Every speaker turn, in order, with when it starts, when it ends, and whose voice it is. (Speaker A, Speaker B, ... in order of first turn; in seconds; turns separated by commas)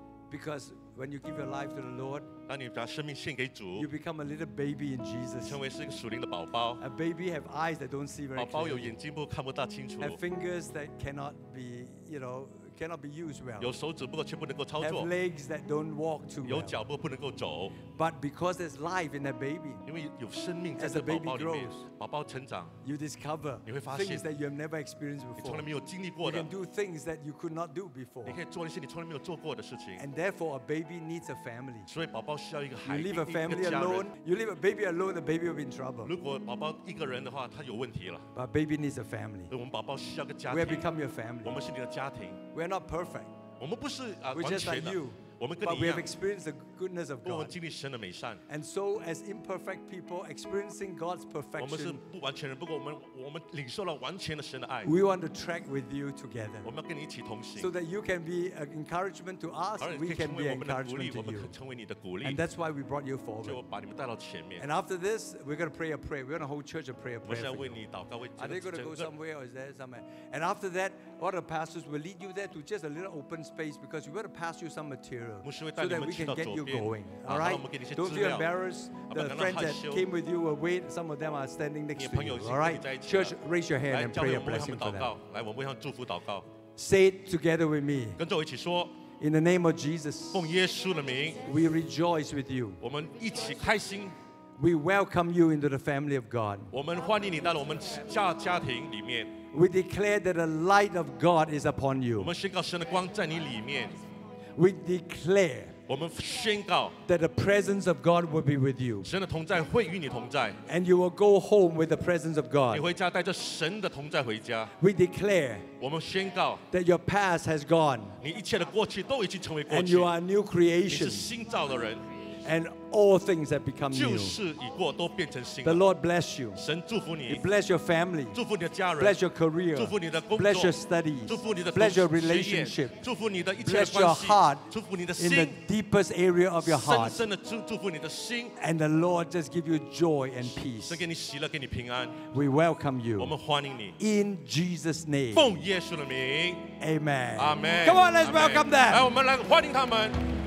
Speaker A: 0.3-2.3, Speaker B: 2.5-3.9, Speaker A: 3.8-5.6, Speaker B: 5.4-6.8, Speaker A: 6.8-8.9, Speaker B: 8.3-10.2, Speaker A: 10.0-13.7, Speaker B: 13.6-15.1, Speaker A: 14.8-16.8, Speaker B: 16.4-17.8, Speaker A: 17.8-19.8, Speaker B: 19.9-22.7, Speaker A: 20.8-21.9, Speaker A: 22.8-25.7, Speaker B: 23.6-24.2, Speaker B: 25.4-26.5, Speaker A: 26.2-28.4, Speaker B: 28.2-30.0, Speaker A: 30.0-31.9, Speaker B: 31.9-34.1, Speaker A: 32.8-36.1, Speaker B: 36.0-38.2, Speaker A: 38.3-39.5, Speaker B: 39.5-40.9, Speaker A: 40.5-41.6, Speaker B: 41.4-42.4, Speaker A: 42.5-43.4, Speaker B: 43.6-46.1, Speaker A: 44.3-47.5, Speaker B: 47.2-48.4, Speaker A: 48.5-52.0, Speaker B: 51.6-55.0, Speaker A: 54.8-56.7, Speaker B: 56.6-57.7, Speaker A: 57.6-61.5, Speaker B: 59.8-62.4, Speaker A: 62.2-63.6, Speaker B: 63.4-64.7, Speaker A: 64.6-67.8, Speaker B: 67.2-69.1, Speaker A: 68.4-85.1, Speaker B: 75.4-78.5, Speaker B: 79.0-80.0, Speaker B: 82.0-83.3, Speaker B: 83.9-86.4, Speaker A: 86.8-88.2, Speaker B: 88.2-89.0, Speaker A: 89.1-90.5, Speaker B: 90.3-91.5, Speaker A: 91.4-92.8, Speaker B: 92.8-94.1, Speaker A: 94.6-96.7, Speaker B: 96.7-99.3, Speaker A: 99.5-102.3, Speaker B: 102.2-104.0, Speaker A: 104.5-105.8, Speaker B: 105.9-107.0, Speaker A: 107.0-109.1, Speaker B: 109.0-110.6, Speaker A: 110.6-112.9, Speaker B: 112.7-114.7, Speaker A: 114.8-115.7, Speaker B: 115.8-116.6, Speaker A: 116.7-118.2, Speaker B: 118.2-120.1, Speaker A: 119.7-121.3, Speaker B: 120.9-122.0, Speaker A: 122.4-124.4, Speaker B: 123.9-125.8, Speaker A: 125.6-126.6, Speaker B: 126.5-127.5, Speaker A: 127.3-128.4, Speaker B: 128.3-129.2, Speaker A: 129.0-132.9, Speaker B: 129.8-130.7, Speaker B: 131.3-135.5, Speaker A: 133.7-137.2, Speaker B: 136.6-138.5, Speaker A: 138.6-141.0, Speaker B: 140.4-142.2, Speaker A: 142.2-143.3, Speaker B: 143.2-143.9, Speaker A: 144.0-145.4, Speaker B: 145.3-146.7, Speaker A: 146.8-149.0, Speaker B: 147.4-150.2